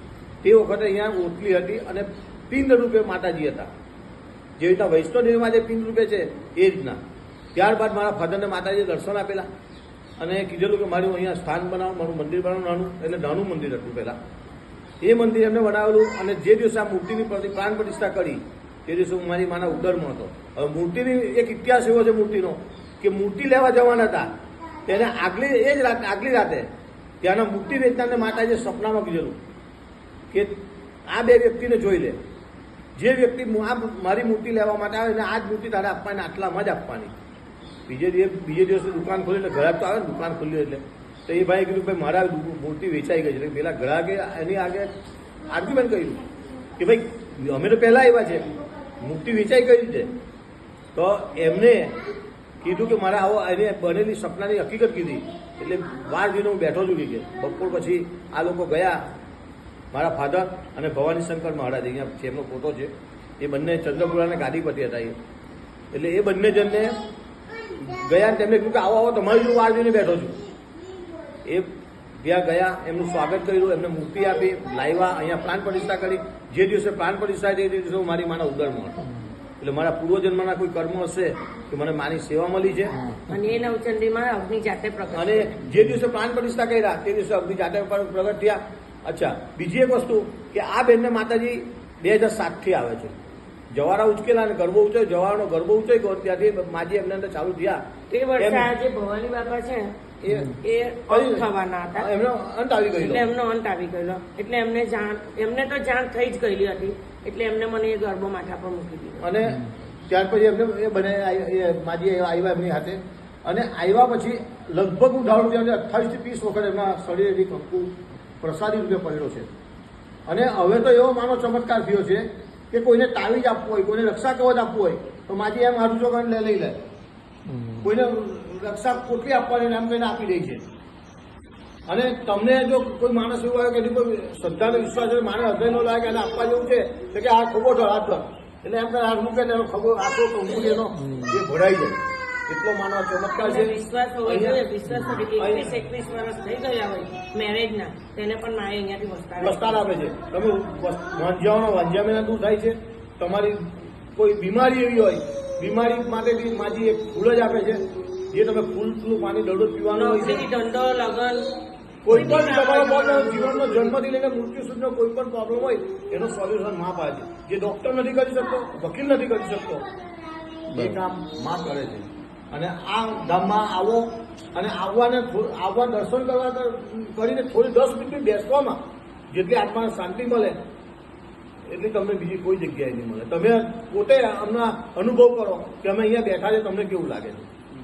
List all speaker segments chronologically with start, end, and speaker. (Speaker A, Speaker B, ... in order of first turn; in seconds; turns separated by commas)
Speaker A: 0.4-3.7, Speaker A: 4.6-7.0, Speaker A: 7.5-9.5, Speaker A: 10.2-14.2, Speaker A: 15.0-24.3, Speaker A: 24.8-26.7, Speaker A: 27.2-29.4, Speaker A: 31.1-32.2, Speaker A: 32.9-37.1, Speaker A: 37.9-44.9, Speaker A: 45.5-46.2, Speaker A: 46.8-50.1, Speaker A: 50.9-52.0, Speaker A: 52.6-59.0, Speaker A: 59.9-65.2, Speaker A: 65.9-66.9, Speaker A: 67.7-70.4, Speaker A: 71.4-79.0, Speaker A: 79.6-83.2, Speaker B: 83.2-85.7, Speaker A: 85.1-93.2, Speaker A: 93.7-97.8, Speaker B: 98.1-100.0, Speaker A: 98.4-98.7, Speaker A: 100.2-100.6, Speaker B: 100.5-102.1, Speaker A: 101.1-103.3, Speaker B: 102.9-109.3, Speaker A: 109.2-119.5, Speaker A: 120.3-126.8, Speaker A: 127.8-130.6, Speaker A: 131.9-144.6, Speaker B: 143.4-149.9, Speaker A: 145.3-145.7, Speaker A: 149.4-160.4, Speaker B: 159.9-161.6, Speaker A: 162.0-169.8, Speaker B: 162.1-164.0, Speaker A: 170.7-178.8, Speaker A: 179.3-180.6, Speaker A: 181.7-187.5